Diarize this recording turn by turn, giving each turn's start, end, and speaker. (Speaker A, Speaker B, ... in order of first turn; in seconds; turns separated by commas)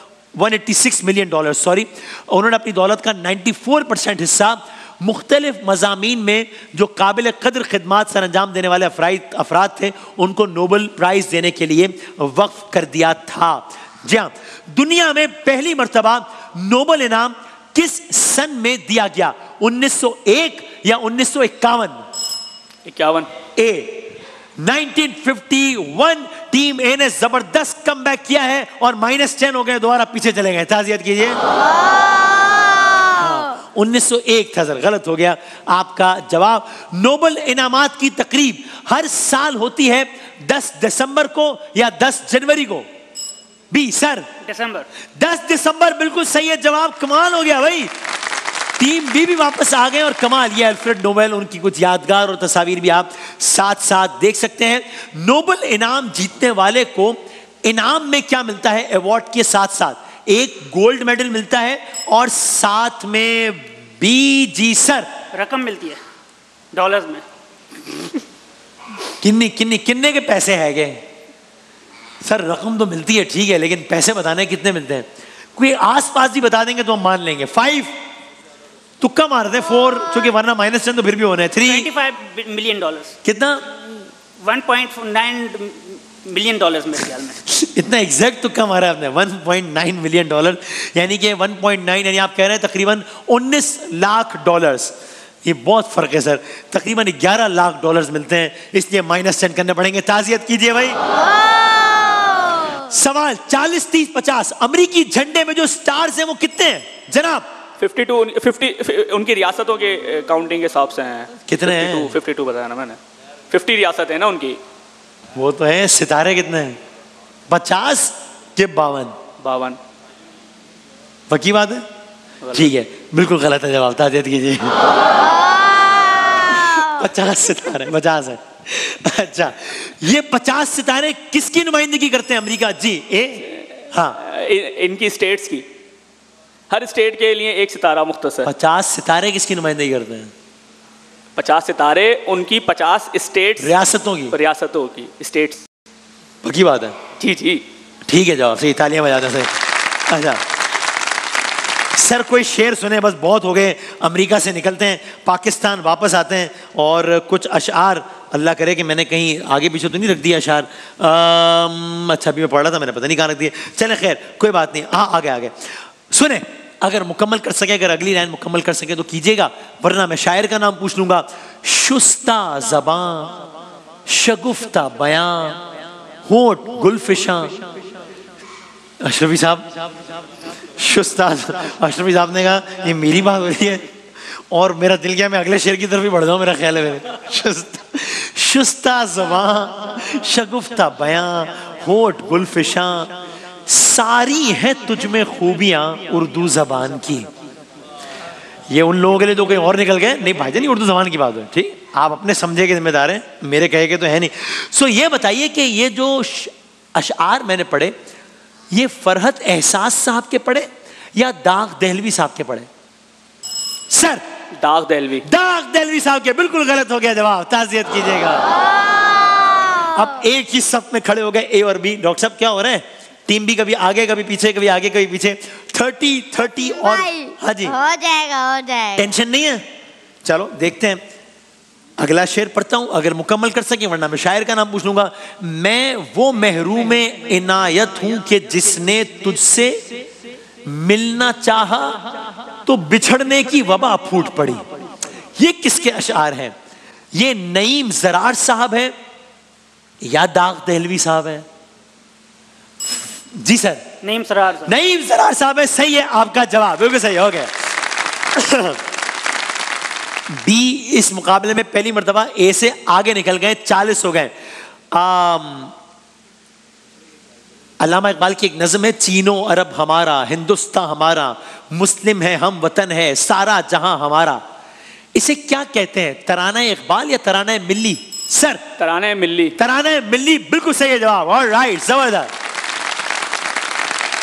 Speaker A: 0.3-22.0, Speaker B: 22.8-23.3, Speaker A: 23.6-31.4, Speaker A: 33.1-42.9, Speaker A: 43.7-44.3, Speaker C: 44.4-44.9, Speaker A: 45.1-47.9, Speaker A: 48.8-65.1, Speaker C: 65.3-66.0, Speaker C: 66.7-67.2, Speaker A: 69.2-71.0, Speaker A: 72.2-77.9, Speaker A: 79.0-81.9, Speaker C: 81.6-83.2, Speaker A: 83.2-83.7, Speaker C: 84.4-87.4, Speaker A: 87.5-101.0, Speaker D: 101.4-102.4, Speaker A: 102.9-107.5, Speaker B: 107.8-113.0, Speaker A: 111.5-112.1, Speaker B: 113.5-114.6, Speaker A: 115.3-116.8, Speaker A: 117.5-119.2, Speaker B: 119.4-119.8, Speaker A: 121.3-121.8, Speaker B: 122.4-122.7, Speaker A: 122.5-124.8, Speaker D: 126.1-126.5, Speaker A: 126.5-134.2, Speaker B: 134.2-135.7, Speaker B: 136.7-138.5, Speaker A: 138.4-140.3, Speaker B: 141.3-143.8, Speaker A: 143.6-144.3, Speaker B: 144.3-145.6, Speaker A: 146.4-147.0, Speaker B: 147.2-147.6, Speaker A: 148.1-149.5, Speaker A: 150.1-150.4, Speaker A: 151.9-173.5, Speaker A: 174.1-175.6, Speaker A: 176.2-177.7, Speaker A: 179.0-179.7, Speaker A: 180.7-183.9, Speaker A: 184.5-193.2, Speaker A: 193.7-197.3, Speaker A: 198.7-207.9, Speaker A: 208.7-212.7, Speaker A: 213.9-214.2, Speaker B: 214.6-215.2, Speaker A: 215.2-218.5, Speaker D: 219.2-220.2, Speaker A: 219.9-227.7, Speaker D: 226.6-229.1, Speaker A: 228.9-229.7, Speaker A: 230.2-231.0, Speaker A: 232.0-239.8, Speaker A: 240.6-244.7, Speaker A: 245.4-246.5, Speaker A: 247.1-248.9, Speaker A: 250.0-251.4, Speaker A: 253.3-253.8, Speaker C: 254.0-254.7, Speaker A: 254.6-257.5, Speaker A: 258.3-258.8, Speaker A: 260.3-264.3, Speaker A: 264.9-265.7, Speaker A: 267.8-274.4, Speaker A: 275.1-278.6, Speaker B: 278.8-279.5, Speaker A: 279.6-282.3